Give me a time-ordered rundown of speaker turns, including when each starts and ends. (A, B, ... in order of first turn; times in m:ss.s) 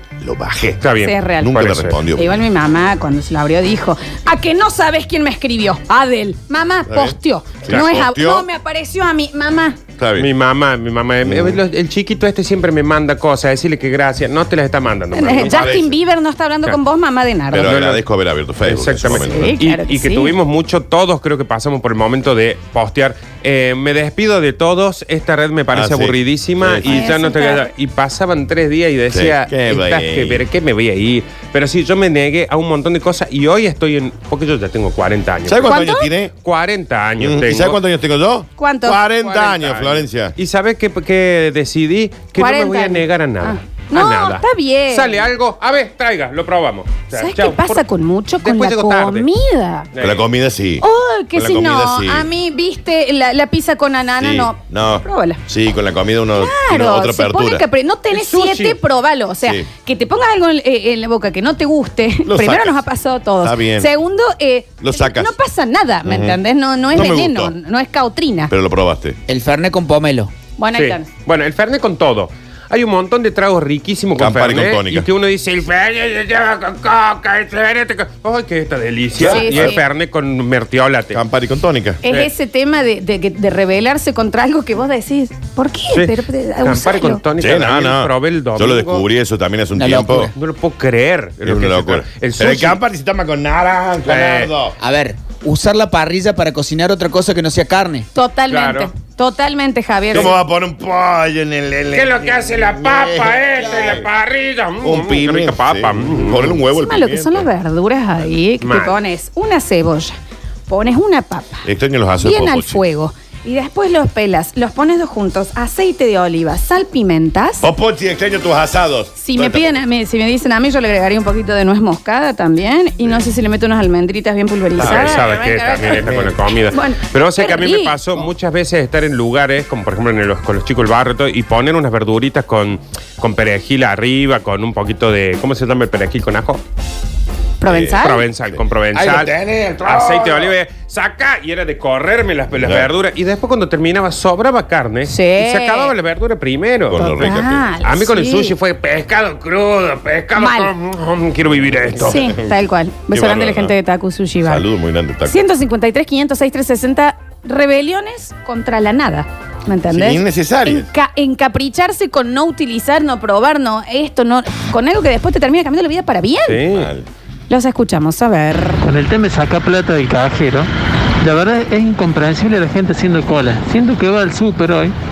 0:00.2-0:00.8 A
0:00.8-0:02.0 B
0:01.0-0:01.6 C
0:01.4-0:02.4 A
0:02.1-0:09.8 C
0:06.9-0:08.5 A
0:10.0-0:10.3 A
0:10.2-0:15.8 B
0:11.2-0:11.6 A
0:15.1-0:17.7 C
0:15.3-0:15.9 A
0:17.5-0:19.5 A
0:17.6-0:18.0 B
0:18.6-0:35.7 B
0:19.2-0:20.4 C
0:25.7-0:27.0 A
0:26.8-0:27.7 C
0:29.1-0:30.4 A
0:35.4-0:36.3 A
0:35.6-0:36.1 C
0:36.4-0:37.8 B
0:37.2-0:40.4 A
0:38.6-0:39.0 C
0:39.2-0:47.8 B
0:42.4-0:45.2 C
0:47.1-0:49.9 C
0:48.4-0:49.3 B
0:49.9-0:50.2 B
0:50.0-0:52.3 A
0:50.8-0:55.4 C
0:54.2-0:57.6 A
0:56.3-1:08.5 C
0:58.1-0:58.8 B
0:59.4-0:59.7 A
1:02.2-1:02.8 A
1:03.4-1:03.9 A
1:04.8-1:05.3 A
1:06.0-1:06.4 A
1:06.9-1:07.5 A
1:08.5-1:09.2 A
1:09.3-1:10.3 D
1:10.6-1:11.1 C
1:10.7-1:21.2 B
1:14.2-1:15.1 A
1:19.1-1:19.8 A
1:19.2-1:19.8 C
1:21.1-1:22.0 A
1:22.0-1:27.2 C
1:22.0-1:22.3 B
1:25.9-1:29.0 B
1:27.4-1:30.3 A
1:29.8-1:30.3 D
1:30.4-1:32.8 B
1:31.4-1:34.7 A
1:34.0-1:34.5 B
1:34.8-1:38.1 D
1:38.1-1:40.3 C
1:38.5-1:38.9 B
1:40.1-1:44.1 A
1:41.9-1:46.6 B
1:44.8-1:47.5 A
1:46.7-1:50.2 C
1:48.6-1:49.0 B
1:50.7-1:51.7 C
1:51.6-1:52.8 A
1:52.2-1:57.7 C
1:57.6-1:59.7 A
1:59.2-2:08.0 C
2:04.8-2:05.3 A
2:04.8-2:16.6 B
2:05.9-2:06.3 A
2:17.6-2:18.2 C
2:17.7-2:18.0 A
2:17.7-2:19.3 B
2:19.2-2:19.8 D
2:19.8-2:32.3 B
2:22.6-2:22.9 A
2:25.0-2:25.9 C
2:26.9-2:27.7 A
2:27.0-2:28.5 C
2:30.3-2:30.7 C
2:31.7-2:32.5 A
2:32.0-2:34.6 C
2:33.1-2:33.7 A
2:34.4-2:35.4 A
2:35.2-2:46.6 C
2:39.9-2:40.9 A
2:46.5-2:46.9 B
2:46.7-2:47.1 A
2:47.5-2:48.8 C
2:48.8-2:50.7 E
2:51.2-2:54.9 E